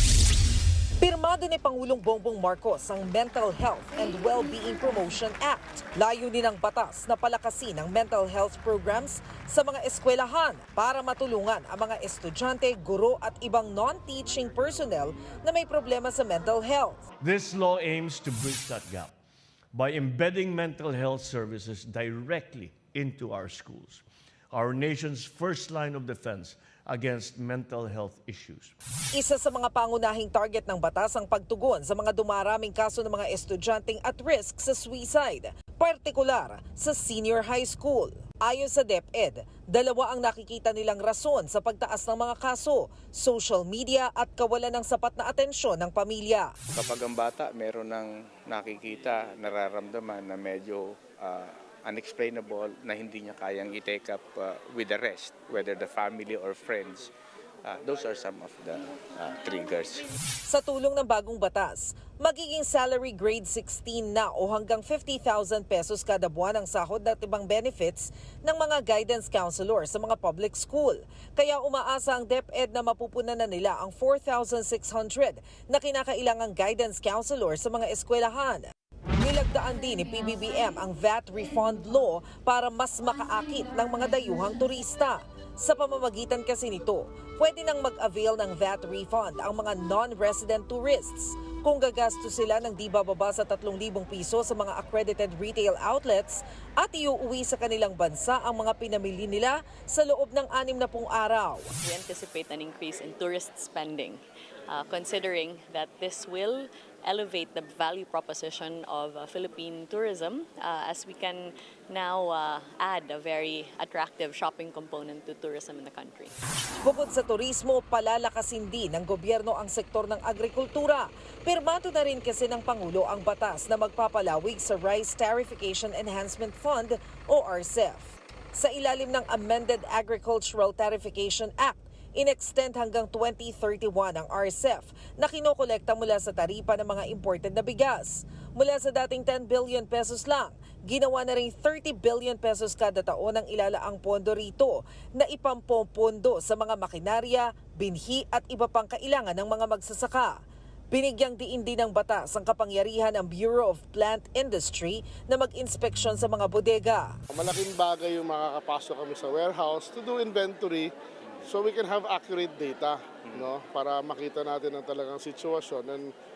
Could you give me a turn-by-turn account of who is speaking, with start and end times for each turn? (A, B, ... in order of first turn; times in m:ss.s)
0:01.0-0:17.0 A
0:17.2-0:19.1 B
0:19.7-0:28.7 B
0:29.1-0:46.5 A
0:46.7-0:57.1 C
0:57.6-1:00.1 C
1:00.5-1:41.7 A
1:41.8-1:56.3 D
1:56.8-2:30.3 A
2:30.9-2:37.1 A
2:37.3-2:40.9 E
2:41.5-2:46.1 E